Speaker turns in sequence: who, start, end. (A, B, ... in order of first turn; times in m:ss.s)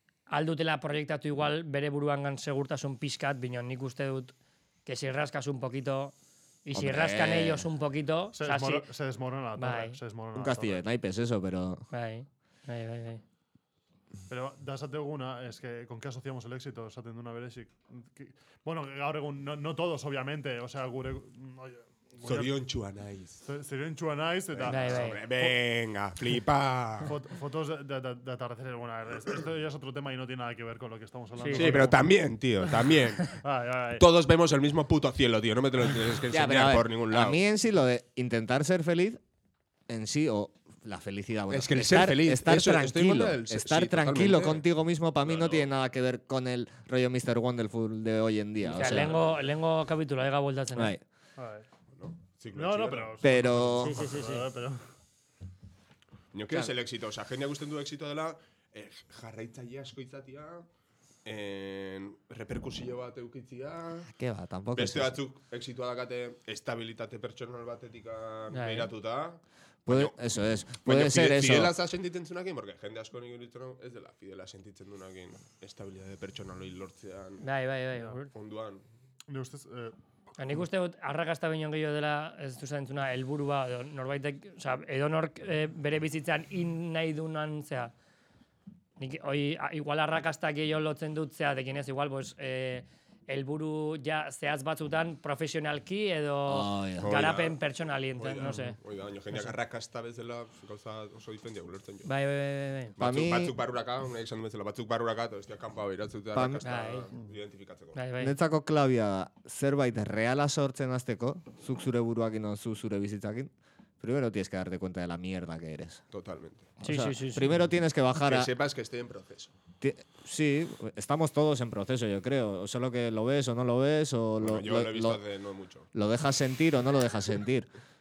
0:00.3-0:04.3 A
0:04.8-0:06.1 A
0:06.6-0:08.9 A
0:06.7-0:07.7 B
0:08.3-0:10.8 C
0:09.6-0:10.0 A
0:10.3-0:11.8 B
0:11.9-0:13.2 A
0:14.3-0:22.5 C
0:22.2-0:23.4 D
0:23.4-0:25.5 C
0:24.5-0:27.1 D
0:24.7-0:25.2 A
0:27.0-0:32.0 C
0:31.4-0:31.8 A
0:31.5-0:33.4 D
0:33.3-0:34.0 C
0:33.9-0:37.4 D
0:36.3-0:39.2 B
0:39.9-0:49.2 B
0:41.5-0:44.6 D
0:45.2-0:45.7 D
0:48.7-0:50.9 A
0:48.7-0:49.3 C
0:50.8-0:51.0 B
0:51.4-0:51.7 C
0:51.9-0:53.2 D
0:52.5-0:54.8 C
0:53.2-0:54.1 B
0:53.8-0:54.5 A
0:56.3-1:00.6 D
1:01.2-1:04.1 D
1:04.1-1:05.1 B
1:04.7-1:10.1 D
1:08.5-1:08.9 A
1:09.8-1:11.7 B
1:10.8-1:17.4 D
1:17.4-1:18.3 A
1:18.3-1:18.8 D
1:19.3-1:20.0 C
1:20.4-1:27.9 A
1:29.0-1:38.8 A
1:36.5-1:37.1 B
1:37.0-1:37.6 D
1:38.2-1:42.1 D
1:38.4-1:38.7 C
1:42.0-1:43.0 A
1:43.0-1:48.0 D
1:43.0-1:43.5 B
1:46.3-1:46.6 B
1:46.6-1:47.1 A
1:47.9-1:48.3 A
1:48.2-1:56.0 B
1:56.1-1:56.7 D
1:56.8-1:57.5 A
1:56.8-1:58.5 B
1:58.2-1:59.5 D
1:59.8-2:05.2 B
2:04.4-2:05.9 D
2:05.9-2:07.7 B